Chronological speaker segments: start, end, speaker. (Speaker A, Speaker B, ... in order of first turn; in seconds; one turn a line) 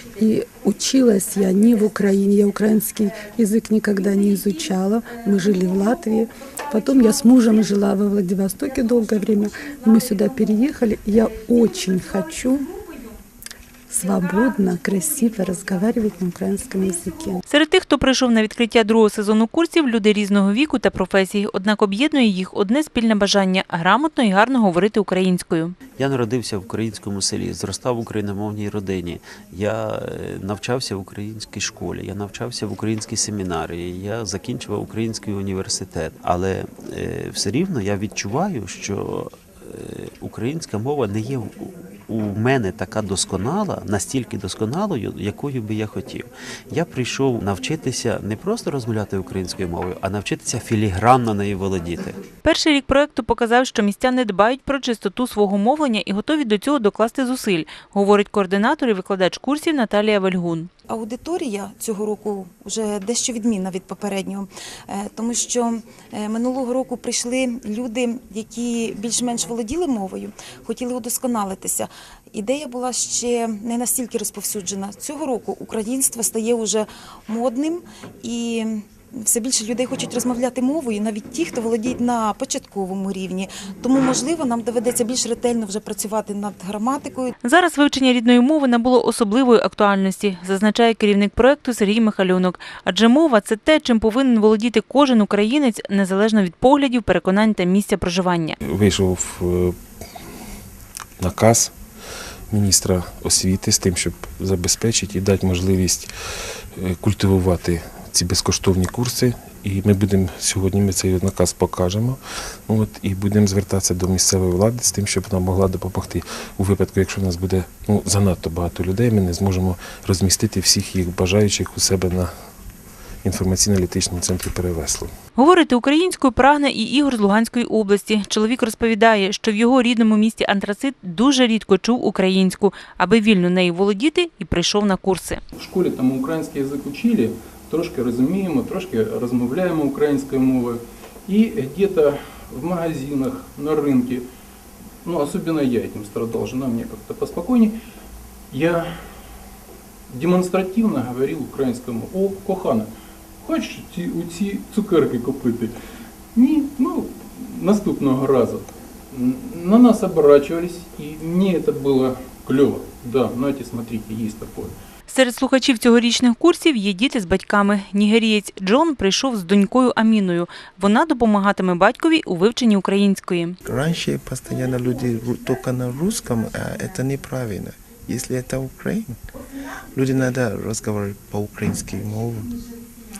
Speaker A: 0.2-12.6
Speaker A: 13.9-17.4
Speaker B: 17.5-25.7
Speaker C: 26.0-52.2
Speaker B: 52.4-60.7
Speaker D: 60.9-87.3
Speaker B: 87.4-98.6
Speaker E: 98.6-99.7
Speaker E: 101.2-101.7
Speaker E: 102.5-106.1
Speaker E: 106.8-112.2
Speaker E: 112.7-122.3
Speaker E: 123.2-125.1
Speaker B: 125.3-135.4
Speaker F: 135.6-144.3
Speaker F: 145.0-147.8
Speaker F: 148.5-149.1
Speaker F: 150.1-152.9
Speaker F: 153.4-155.7
Speaker F: 156.3-164.8
Speaker B: 165.1-173.5
Speaker G: 173.6-179.1
Speaker G: 179.9-182.5